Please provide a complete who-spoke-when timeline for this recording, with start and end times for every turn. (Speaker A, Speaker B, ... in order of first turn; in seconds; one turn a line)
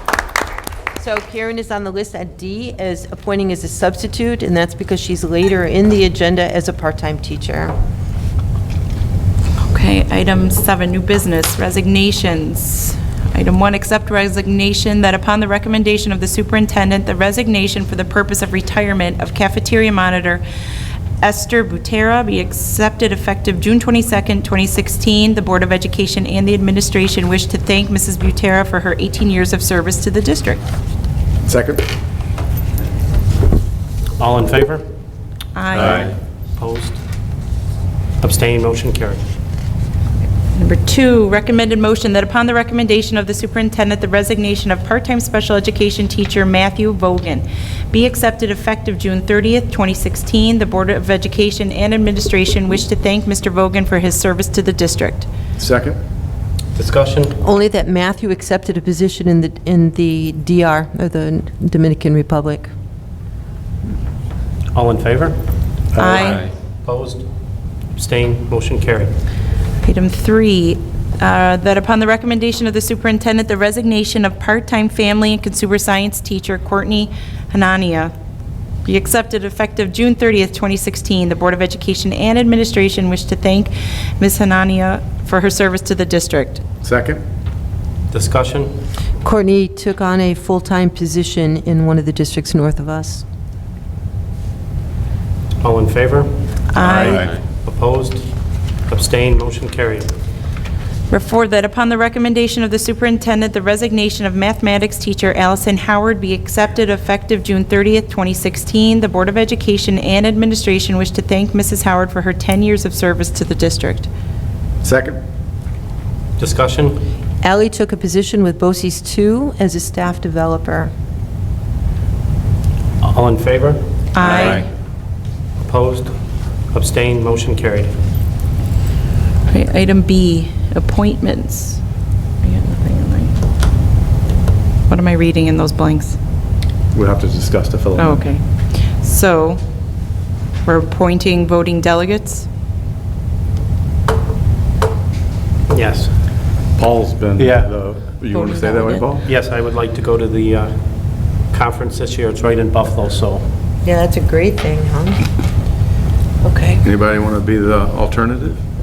Speaker A: 1.0-7.7
Speaker B: 9.7-20.4
Speaker B: 21.2-30.6
Speaker C: 31.4-31.8
Speaker D: 34.2-34.8
Speaker B: 35.5-36.0
Speaker C: 35.7-36.0
Speaker D: 35.8-37.0
Speaker D: 38.2-39.2
Speaker B: 40.5-55.3
Speaker C: 55.6-56.0
Speaker D: 56.7-57.3
Speaker A: 57.4-62.7
Speaker D: 64.7-65.3
Speaker C: 65.9-66.4
Speaker B: 66.0-66.5
Speaker D: 66.8-67.2
Speaker D: 68.0-69.1
Speaker B: 69.8-78.1
Speaker B: 78.8-86.6
Speaker C: 86.8-87.2
Speaker D: 88.1-88.7
Speaker A: 89.2-93.2
Speaker D: 95.6-96.3
Speaker B: 96.7-97.2
Speaker C: 96.8-97.3
Speaker D: 96.8-98.3
Speaker D: 98.9-100.1
Speaker B: 101.1-114.1
Speaker C: 114.8-115.2
Speaker D: 116.4-117.0
Speaker A: 117.4-120.9
Speaker D: 123.0-124.6
Speaker B: 124.1-124.7
Speaker D: 125.6-126.1
Speaker D: 126.7-127.9
Speaker B: 129.5-131.8
Speaker B: 132.4-133.3
Speaker B: 134.9-136.2
Speaker C: 136.9-138.2
Speaker B: 137.9-138.4
Speaker B: 138.9-139.6
Speaker B: 140.6-142.4
Speaker D: 145.7-146.1
Speaker C: 146.8-149.2
Speaker D: 147.4-147.7
Speaker B: 148.3-149.1
Speaker D: 149.2-150.8
Speaker D: 151.5-153.4
Speaker A: 153.8-155.2
Speaker A: 156.4-156.8
Speaker C: 156.8-158.6